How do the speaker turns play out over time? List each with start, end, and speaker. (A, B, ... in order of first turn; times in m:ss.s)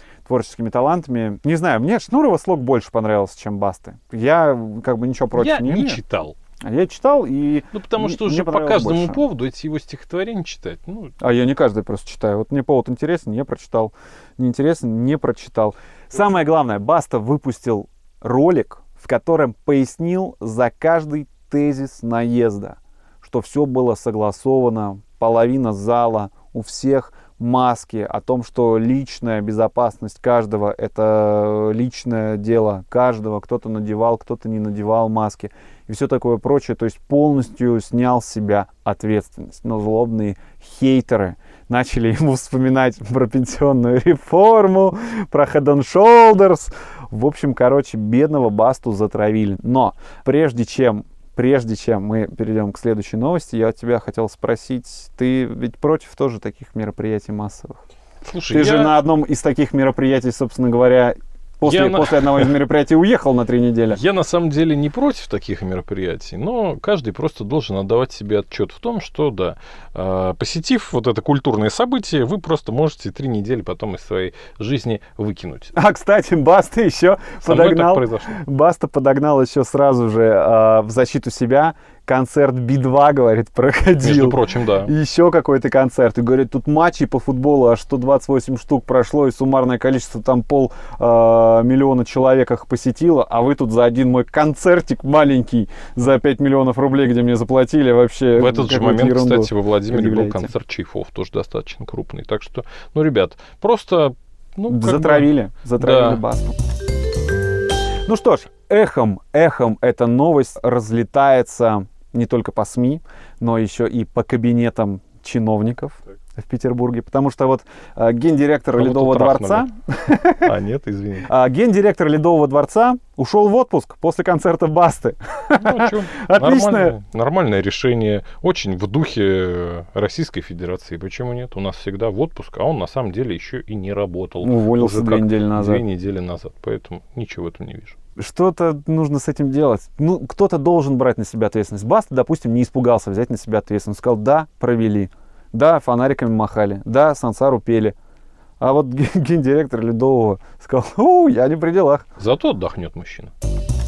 0:00.2-0:06.0 A
0:05.3-0:06.4 B
0:06.6-0:09.2 A
0:07.7-0:11.1 B
0:11.2-0:57.8 A
0:58.2-0:59.0 B
0:58.5-1:04.0 A
1:01.6-1:02.6 B
1:03.9-1:15.7 B
1:15.7-1:40.5 A
1:17.4-1:18.4 B
1:24.0-1:24.9 B
1:38.3-1:46.2 B
1:44.7-1:46.6 A
1:48.0-2:00.5 A
1:58.8-1:59.7 B
2:00.4-2:01.3 B
2:01.2-2:06.9 A
2:05.6-2:18.0 B
2:14.4-2:15.8 A
2:18.2-2:28.0 A
2:28.6-2:32.0 A
2:32.2-2:33.3 B